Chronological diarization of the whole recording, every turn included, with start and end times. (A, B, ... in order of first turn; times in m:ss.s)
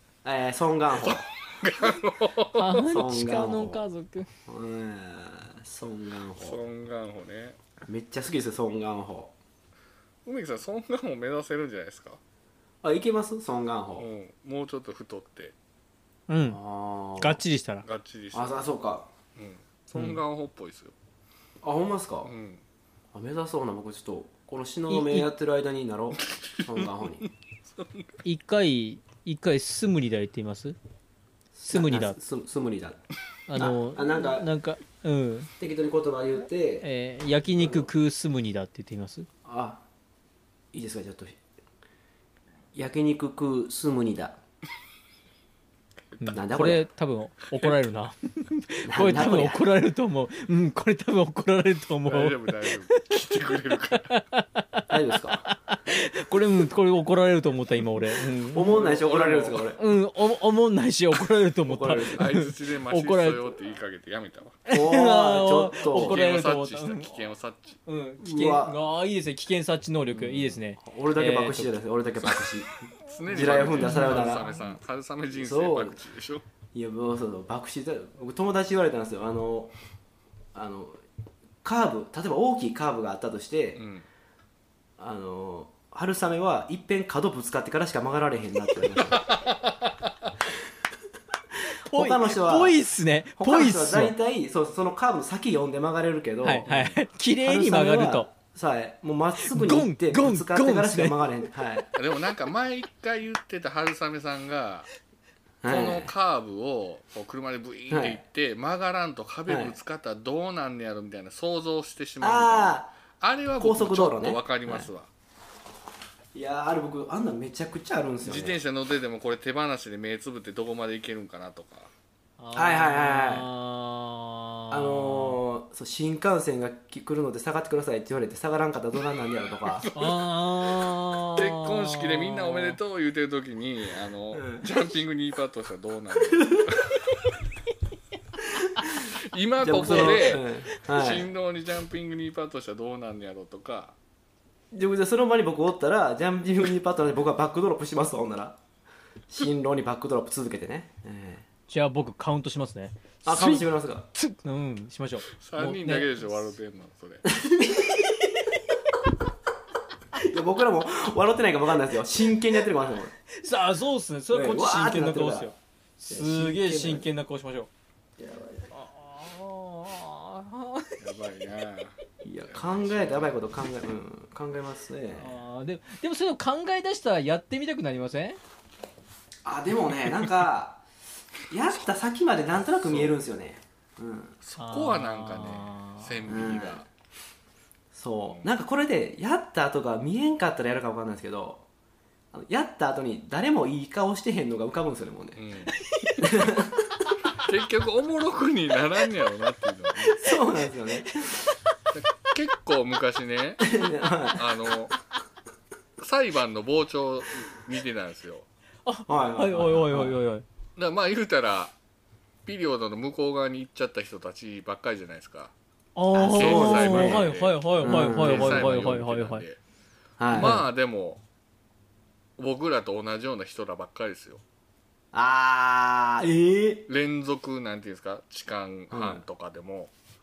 0:00.2-0:01.3 A
0:01.0-0:03.0 B
0:02.6-0:04.3 C
0:02.9-0:03.8 A
0:04.5-0:06.6 A
0:06.4-0:07.6 B
0:07.8-0:09.3 A
0:10.3-0:12.2 B
0:12.8-0:14.1 A
0:14.0-0:15.6 B
0:16.3-0:16.6 C
0:16.5-0:17.4 A
0:17.2-0:17.9 C
0:17.8-0:18.6 B
0:18.3-0:19.1 A
0:19.4-0:21.0 B
0:21.6-0:22.3 A
0:22.2-0:22.6 B
0:23.1-0:27.2 A
0:24.9-0:25.3 C
0:26.5-0:27.1 B
0:27.7-0:28.2 B
0:28.2-0:30.8 C
0:31.6-0:33.0 A
0:31.7-0:32.2 C
0:33.5-0:35.5 C
0:33.6-0:34.5 A
0:35.6-0:36.9 A
0:36.8-0:39.3 C
0:37.4-0:37.9 A
0:39.4-0:39.8 A
0:40.7-0:41.4 A
0:42.7-0:44.4 A
0:46.1-0:46.4 B
0:46.2-0:53.0 C
0:46.3-0:46.9 A
0:47.5-0:47.8 B
0:48.9-0:49.6 A
0:52.0-0:54.2 B
0:54.1-0:54.9 C
0:54.9-0:55.5 A
0:55.5-0:58.8 C
0:58.5-0:59.8 A
0:58.7-0:59.7 B
0:59.8-1:03.5 C
1:01.7-1:02.3 A
1:02.0-1:04.6 B
1:04.7-1:07.2 C
1:04.7-1:06.2 A
1:05.9-1:07.8 B
1:07.9-1:11.8 C
1:08.2-1:08.8 A
1:10.1-1:14.6 A
1:13.0-1:16.4 B
1:13.8-1:14.4 C
1:15.3-1:16.0 A
1:16.7-1:19.7 A
1:20.6-1:21.0 A
1:21.6-1:23.8 A
1:23.8-1:24.0 B
1:25.0-1:29.3 A
1:29.1-1:29.8 B
1:31.9-1:34.2 C
1:31.9-1:32.8 A
1:33.4-1:36.7 A
1:36.4-1:38.3 C
1:36.6-1:37.0 B
1:37.4-1:41.9 A
1:39.4-1:41.3 C
1:42.0-1:44.9 B
1:45.6-1:46.1 A
1:45.7-1:55.1 B
1:47.9-1:48.2 A
1:49.5-1:49.8 A
1:52.2-1:53.0 A
1:53.6-1:54.9 A
1:56.3-1:58.6 A
1:58.2-2:01.9 B
2:02.4-2:05.4 C
2:02.5-2:03.5 A
2:04.7-2:09.9 A
2:09.8-2:10.2 B
2:09.9-2:12.8 C
2:11.4-2:17.1 B
2:14.3-2:14.7 A
2:19.1-2:24.0 B
2:19.6-2:21.3 A
2:24.7-2:28.6 A
2:29.3-2:31.5 A
2:31.7-2:36.5 C
2:33.2-2:34.1 A
2:35.3-2:37.3 B
2:37.3-2:37.9 A
2:37.8-2:38.7 C
2:40.1-2:43.1 A
2:43.3-2:47.7 C
2:44.3-2:45.5 A
2:46.1-2:47.0 A
2:48.2-2:48.7 A
2:48.7-2:51.2 C
2:51.0-2:53.4 B
2:52.2-2:55.4 A
2:55.2-2:58.4 C
2:59.4-3:00.8 A
3:01.5-3:04.4 A
3:02.8-3:03.2 B
3:04.4-3:06.9 B
3:04.6-3:06.2 C
3:06.3-3:06.8 A
3:07.9-3:11.6 A
3:12.3-3:15.4 A
3:15.4-3:15.8 B
3:15.8-3:16.3 C
3:16.2-3:16.9 A
3:17.3-3:20.2 B
3:20.0-3:21.1 A
3:21.1-3:21.6 C
3:21.9-3:23.8 B
3:23.6-3:24.4 A
3:24.4-3:24.9 B
3:26.0-3:28.5 B
3:28.9-3:30.4 C
3:29.1-3:30.2 A
3:30.8-3:31.8 B
3:32.5-3:35.5 B
3:36.0-3:39.4 C
3:36.1-3:37.3 A
3:36.3-3:39.6 B
3:37.8-3:38.7 A
3:40.2-3:40.7 A
3:40.3-3:41.2 B
3:42.4-3:44.4 B
3:45.1-3:46.9 A
3:46.9-3:49.9 B
3:48.9-3:49.2 A